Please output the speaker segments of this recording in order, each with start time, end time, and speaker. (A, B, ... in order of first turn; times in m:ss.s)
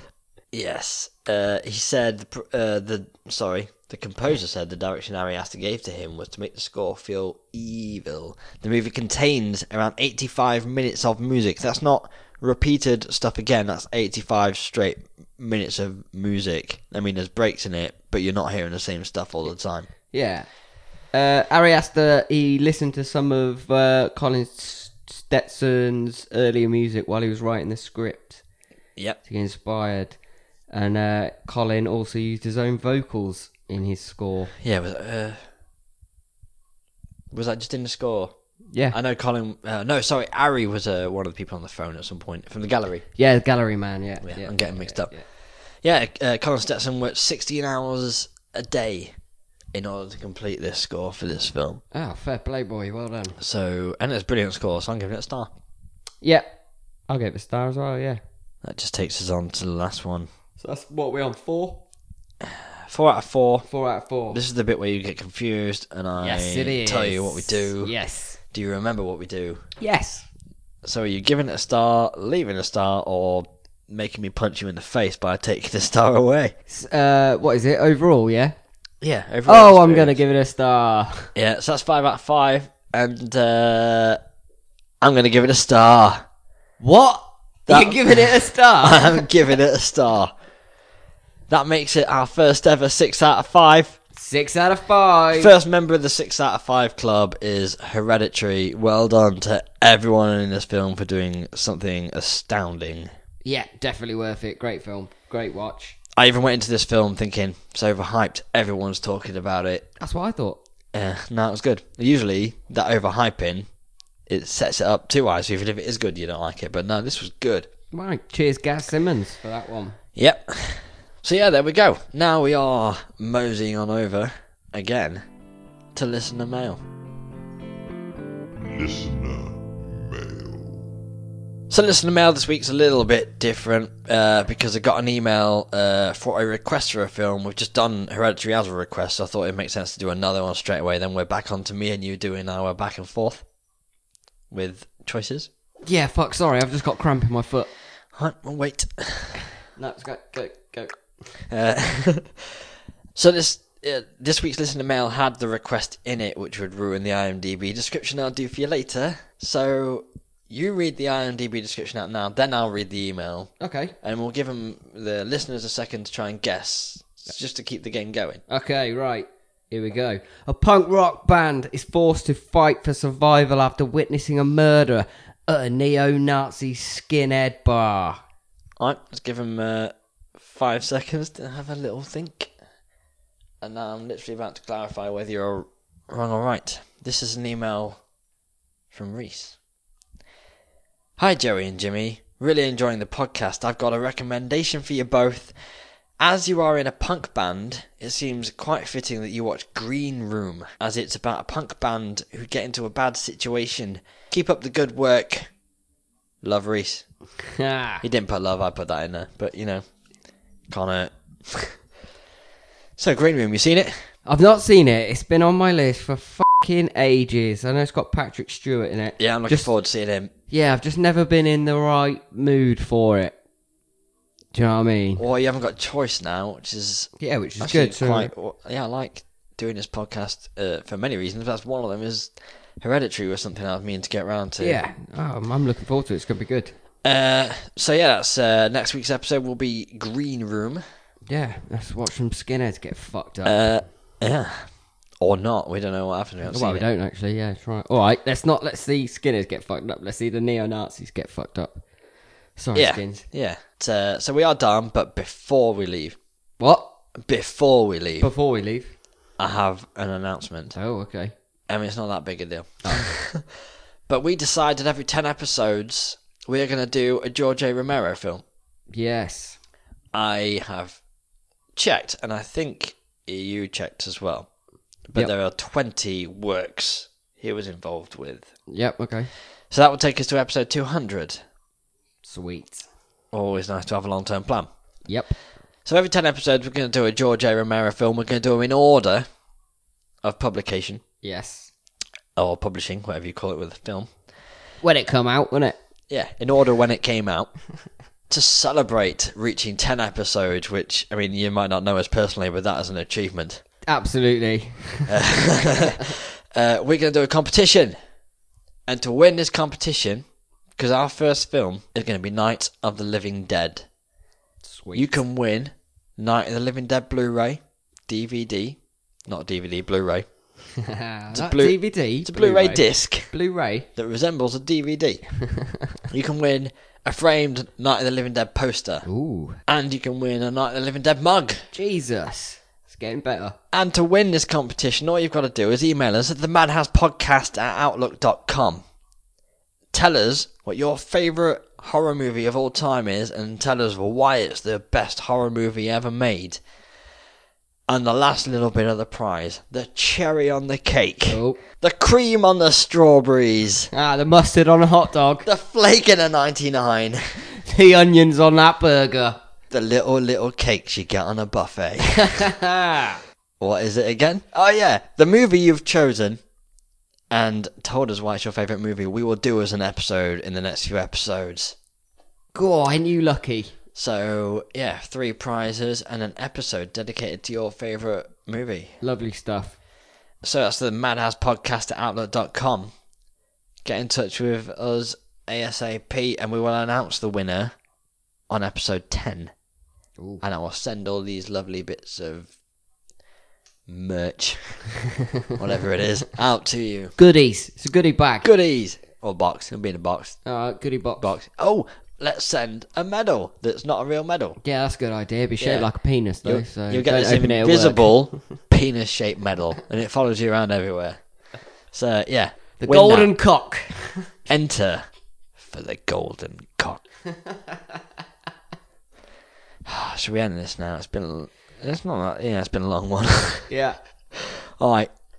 0:00.5-0:19.9 A
0:20.1-0:20.5 B
0:21.1-0:28.4 B
0:29.2-0:30.2 B
0:30.7-0:34.5 B
0:34.6-0:35.4 A
0:37.3-0:38.3 A
0:38.7-0:39.0 B
0:38.9-0:43.0 A
0:43.2-0:45.2 B
0:44.2-0:45.2 A
0:45.8-0:49.1 A
0:49.7-0:51.8 A
0:51.9-0:53.4 B
0:53.4-0:55.5 A
0:56.2-0:56.5 B
0:57.1-0:58.2 B
0:58.6-1:00.3 A
1:00.6-1:01.8 B
1:02.4-1:03.7 A
1:03.7-1:04.4 B
1:04.3-1:08.0 A
1:06.2-1:08.4 B
1:08.5-1:09.6 A
1:09.8-1:10.3 B
1:10.8-1:16.6 A
1:16.7-1:18.6 B
1:19.0-1:20.2 A
1:19.4-1:21.3 B
1:21.4-1:24.2 A
1:25.0-1:26.2 A
1:26.8-1:29.3 B
1:27.7-1:28.3 A
1:28.8-1:30.3 A
1:31.5-1:34.0 A
1:34.1-1:35.5 B
1:35.4-1:43.1 A
1:43.4-1:46.0 B
1:46.2-1:49.9 A
1:50.0-1:50.6 B
1:50.9-1:53.7 A
1:54.3-1:57.7 A
1:57.9-2:00.0 B
2:00.2-2:05.2 A
2:05.9-2:06.8 A
2:08.6-2:11.0 C
2:11.7-2:23.4 A
2:24.5-2:25.5 A
2:25.8-2:27.7 B
2:28.1-2:29.4 A
2:29.8-2:31.0 B
2:31.5-2:32.6 A
2:33.1-2:48.4 A
2:43.6-2:43.9 B
2:48.5-2:58.2 B
2:58.8-3:02.5 A
3:03.6-3:08.0 A
3:08.9-3:09.6 A
3:11.2-3:15.6 A
3:16.2-3:25.5 A
3:26.4-3:27.0 A
3:27.6-3:28.0 B
3:28.0-3:29.8 A
3:30.7-3:31.8 A
3:33.0-3:34.0 A
3:34.3-3:39.7 B
3:39.2-3:40.3 A
3:40.5-3:43.3 B
3:44.5-3:45.2 B
3:45.2-3:54.8 A
3:47.2-3:48.3 B
3:54.6-3:56.7 B
3:57.0-4:00.8 A
4:01.3-4:03.6 B
4:03.4-4:04.7 A
4:05.2-4:06.8 A
4:06.4-4:11.8 B
4:12.6-4:13.2 B
4:12.7-4:16.2 A
4:16.6-4:16.9 B
4:17.2-4:18.3 A
4:18.2-4:18.9 B
4:19.4-4:20.8 A
4:20.8-4:21.3 B
4:21.7-4:23.5 A
4:22.8-4:23.1 B
4:24.1-4:28.4 A
4:28.9-4:29.6 B
4:30.1-4:31.0 A
4:31.8-4:34.5 A
4:35.1-4:38.5 A
4:38.7-4:39.3 B
4:39.7-4:41.4 A
4:42.2-4:42.9 B
4:43.3-4:44.7 A
4:45.1-4:45.4 B
4:45.8-4:49.3 A
4:50.2-4:51.0 A
4:51.2-4:51.7 B
4:52.4-4:54.1 A
4:54.8-4:55.8 B
4:56.1-4:57.6 A
4:58.3-5:03.6 A
5:03.9-5:05.1 B
5:05.1-5:08.0 A
5:08.9-5:10.2 A
5:10.8-5:13.9 A
5:14.6-5:15.1 B
5:14.9-5:20.3 A
5:20.9-5:23.9 B
5:21.3-5:23.3 A
5:24.0-5:25.2 A
5:26.1-5:29.1 A
5:29.0-5:29.6 B
5:29.6-5:31.7 A
5:31.7-5:33.6 B
5:33.7-5:38.8 A
5:39.9-5:46.6 A
5:47.9-5:53.9 A
5:51.3-5:51.6 B
5:53.9-5:55.5 B
5:55.4-5:57.2 A
5:57.6-5:59.4 B
5:59.7-6:02.3 A
6:02.2-6:03.2 B
6:03.6-6:06.4 A
6:07.3-6:11.7 A
6:12.5-6:13.7 B
6:14.0-6:19.0 A
6:19.0-6:19.8 B
6:20.4-6:22.9 A
6:23.8-6:27.7 A
6:28.5-6:29.5 A
6:30.4-6:32.5 A
6:33.9-6:35.0 A
6:35.6-6:37.2 A
6:37.2-6:38.5 B
6:38.4-6:40.4 A
6:40.4-6:41.3 B
6:41.2-6:44.6 A
6:44.6-6:48.4 B
6:45.6-6:45.9 A
6:46.4-6:51.2 A
6:51.9-6:53.3 A
6:52.8-6:54.3 B
6:54.5-6:55.0 A
6:55.6-6:57.0 A
6:59.8-7:03.7 A
7:03.7-7:04.0 B
7:04.4-7:05.1 A